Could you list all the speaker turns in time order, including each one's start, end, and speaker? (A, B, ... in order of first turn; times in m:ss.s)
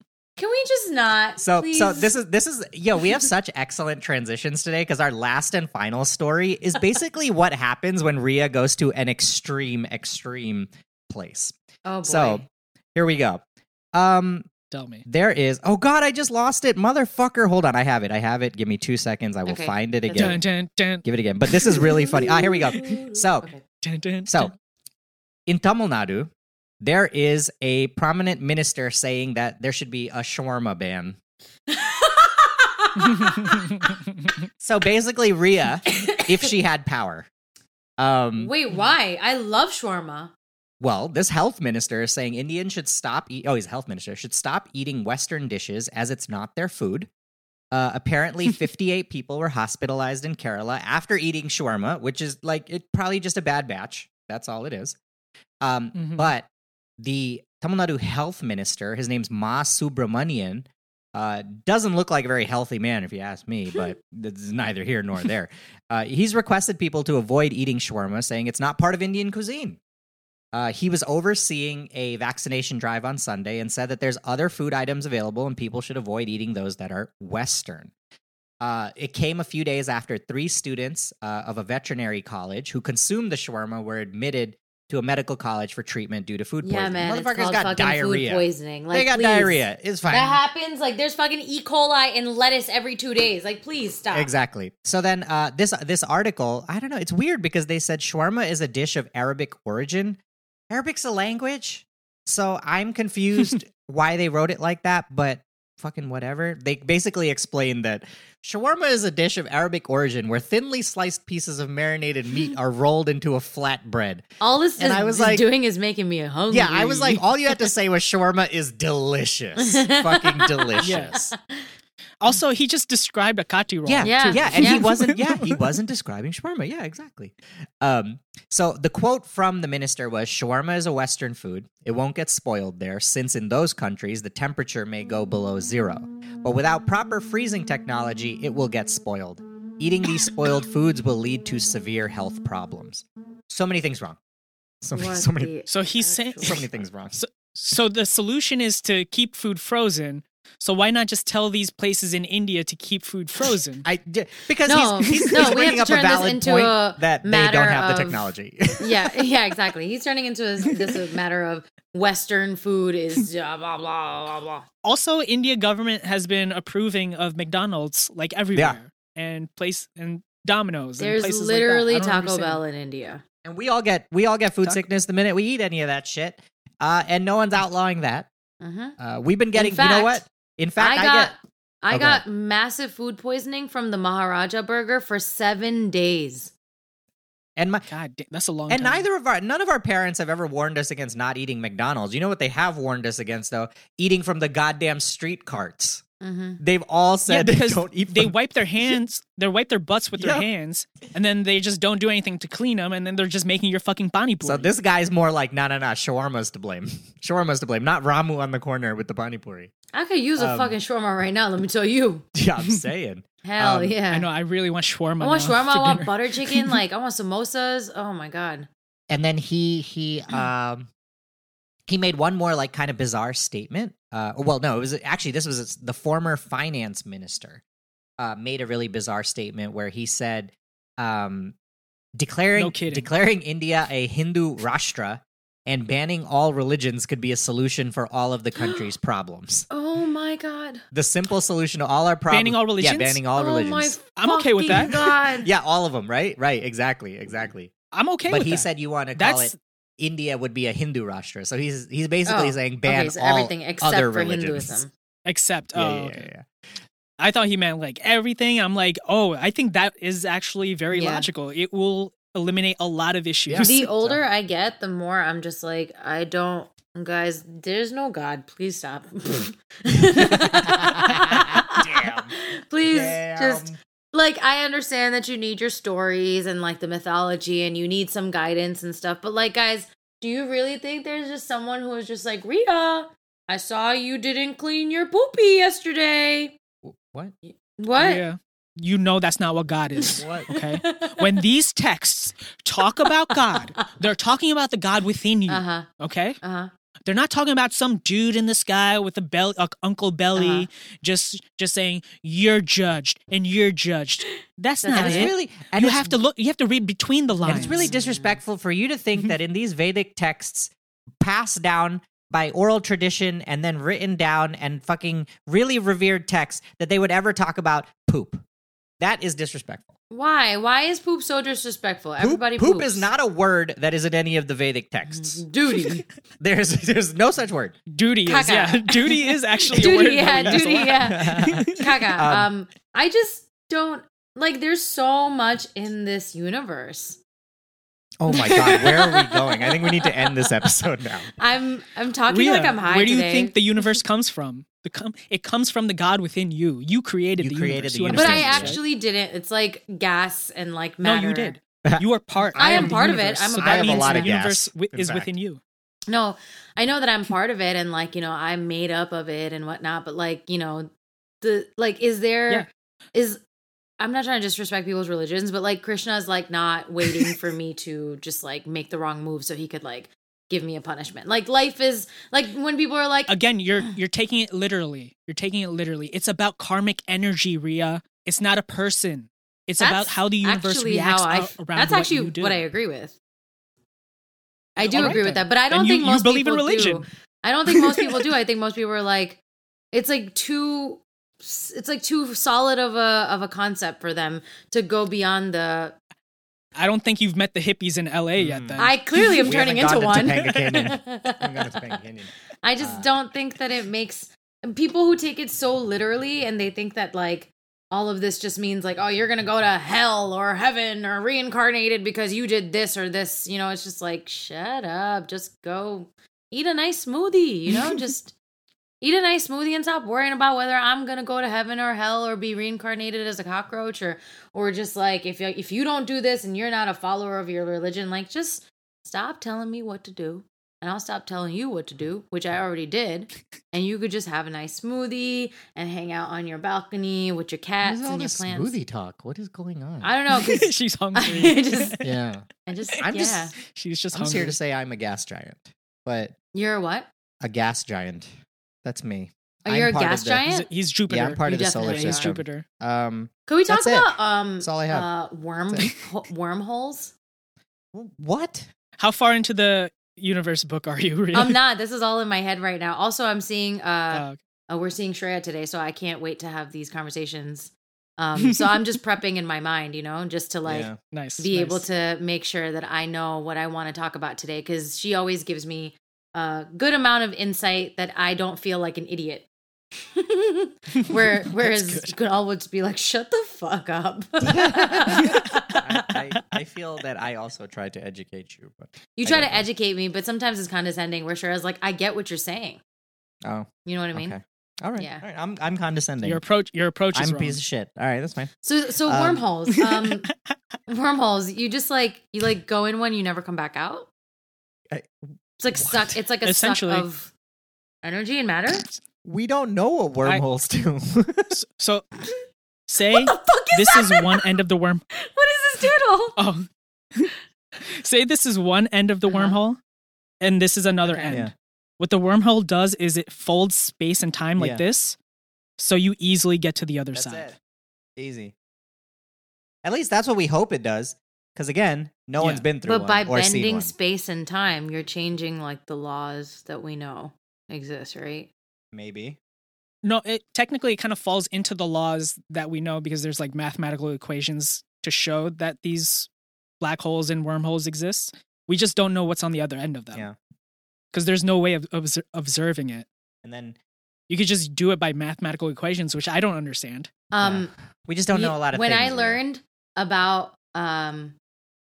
0:00.4-0:02.1 A
0:01.4-0:12.4 B
0:11.8-0:12.4 A
0:12.9-0:13.4 B
0:13.9-0:14.5 B
0:14.7-0:15.0 C
0:15.0-0:20.4 B
0:19.4-0:20.4 A
0:20.1-0:22.0 C
0:21.0-0:23.5 B
0:21.6-0:23.6 A
0:23.8-0:24.5 C
0:24.3-0:24.5 B
0:25.5-0:26.3 B
0:26.8-0:31.2 B
0:31.7-0:33.9 A
0:33.0-0:34.0 C
0:34.6-0:37.3 B
0:35.9-0:36.5 A
0:38.0-0:38.5 B
0:38.4-0:40.3 A
0:40.8-0:47.1 B
0:47.7-0:55.0 B
0:55.6-0:56.5 B
0:55.9-0:56.3 C
0:57.0-1:09.8 B
1:10.5-1:17.9 B
1:18.6-1:30.4 B
1:26.6-1:34.3 A
1:34.1-1:40.2 B
1:40.7-1:55.4 B
1:54.4-1:57.6 A
1:56.5-2:01.3 B
1:59.6-2:01.6 A
2:00.8-2:01.1 C
2:02.2-2:05.6 C
2:03.8-2:24.2 B
2:04.0-2:04.9 A
2:24.8-2:25.5 B
2:24.9-2:26.6 A
2:25.7-2:26.6 C
2:26.4-2:27.2 B
2:27.2-2:33.8 C
2:33.8-2:39.1 B
2:34.6-2:44.6 A
2:35.1-2:35.5 C
2:44.8-2:52.6 C
2:51.0-2:53.2 A
2:53.4-2:58.3 B
2:58.6-2:59.0 A
2:59.0-3:01.3 B
2:59.5-3:00.2 A
3:00.8-3:06.5 A
3:01.9-3:02.2 B
3:07.6-3:07.9 B
3:07.9-3:09.0 C
3:08.7-3:16.0 B
3:16.2-3:16.6 A
3:16.6-3:19.0 B
3:17.3-3:24.7 C
3:20.2-3:20.5 B
3:24.4-3:29.7 B
3:29.9-3:32.2 A
3:30.4-3:30.7 B
3:32.3-3:34.0 B
3:33.4-3:34.3 A
3:34.1-3:36.8 C
3:35.2-3:38.7 A
3:39.1-3:40.9 B
3:41.9-3:47.6 B
3:48.2-3:51.5 B
3:52.2-3:59.7 B
3:52.6-3:53.0 C
3:58.6-3:58.8 A
3:59.7-4:00.8 A
4:00.9-4:04.0 B
4:02.3-4:03.2 C
4:03.3-4:05.5 A
4:04.2-4:05.0 C
4:04.8-4:07.7 B
4:07.9-4:09.5 C
4:08.3-4:14.8 B
4:12.2-4:14.9 A
4:15.2-4:16.3 C
4:15.7-4:16.5 B
4:17.2-4:23.9 C
4:20.9-4:21.3 A
4:23.5-4:24.2 B
4:23.6-4:46.6 A
4:30.3-4:32.3 B
4:32.9-4:33.8 B
4:46.8-4:47.3 B
4:47.4-4:48.2 A
4:48.0-4:56.4 C
4:50.0-4:51.4 A
4:50.2-4:50.5 B
4:53.0-4:53.9 A
4:55.5-4:55.9 A
4:56.4-4:56.7 A
4:57.0-5:07.9 C
5:00.4-5:00.7 A
5:04.8-5:05.3 A
5:05.0-5:06.1 B
5:07.4-5:08.4 A
5:07.4-5:18.4 B
5:19.0-5:19.9 B
5:20.1-5:23.1 A
5:22.2-5:25.4 B
5:25.0-5:26.0 A
5:26.4-5:27.8 B
5:27.9-5:31.9 C
5:28.2-5:37.2 A
5:30.3-5:32.5 B
5:38.2-5:41.3 B
5:38.3-5:40.7 A
5:41.4-5:43.5 A
5:42.3-5:48.8 C
5:47.4-5:48.8 B
5:48.1-5:51.6 A
5:51.0-5:55.6 C
5:51.8-5:53.0 B
5:52.6-5:54.3 A
5:53.6-5:55.3 B
5:56.1-6:00.9 A
6:01.4-6:03.4 A
6:04.0-6:13.3 A
6:13.3-6:22.6 C
6:19.8-6:23.2 A
6:24.8-6:29.4 A
6:24.8-6:27.0 C
6:24.9-6:25.2 B
6:27.7-6:28.2 C
6:29.9-6:36.0 A
6:36.8-6:39.5 C
6:38.4-6:38.8 B
6:38.8-6:42.0 A
6:39.4-6:43.1 B
6:40.2-6:40.7 C
6:42.6-6:58.3 A
6:57.7-6:58.0 C
6:59.0-7:18.7 A
7:17.8-7:20.1 B
7:20.0-7:22.0 A
7:20.3-7:22.1 C
7:22.0-7:22.4 B
7:22.6-7:23.5 A
7:23.0-7:23.5 B
7:23.6-7:24.6 C
7:24.1-7:26.3 B
7:26.5-7:27.1 A
7:27.4-7:28.3 B
7:28.8-7:30.4 B
7:29.6-7:30.7 A
7:30.4-7:32.6 C
7:31.1-7:35.1 B
7:31.4-7:32.4 A
7:33.5-7:37.1 A
7:37.9-7:38.7 B
7:39.0-7:41.6 C
7:41.3-7:59.5 A
7:44.1-7:44.4 C
7:48.4-7:48.7 C
7:50.6-7:51.0 B
7:51.1-7:51.8 C
8:00.0-8:05.8 A
8:01.0-8:02.1 C
8:04.4-8:09.6 B
8:09.2-8:12.8 A
8:13.4-8:16.4 B
8:13.8-8:14.3 A
8:15.0-8:15.2 A
8:16.2-8:17.6 C
8:17.1-8:18.5 B
8:18.6-8:20.3 A
8:19.0-8:19.4 B
8:20.9-8:24.1 A
8:24.9-8:26.1 B
8:25.6-8:27.3 A
8:26.4-8:27.0 C
8:28.0-8:28.8 A
8:29.2-8:31.5 B
8:31.5-8:32.1 C
8:32.9-8:35.0 C
8:33.1-8:34.5 A
8:35.1-8:36.4 A
8:36.4-8:39.8 C
8:39.3-8:39.6 A
8:40.4-8:45.2 C
8:41.0-8:41.5 A
8:44.6-8:44.8 B
8:45.8-8:47.5 C
8:47.1-8:47.6 B
8:48.2-8:48.5 B
8:49.8-8:53.9 B
8:52.4-8:52.6 C
8:52.8-8:58.5 A
8:58.9-8:59.4 B
9:00.0-9:06.3 C
9:06.8-9:10.2 C
9:11.1-9:13.0 C
9:13.4-9:13.8 B
9:14.3-9:17.1 C
9:17.3-9:17.7 A
9:17.4-9:19.4 B
9:18.3-9:21.4 A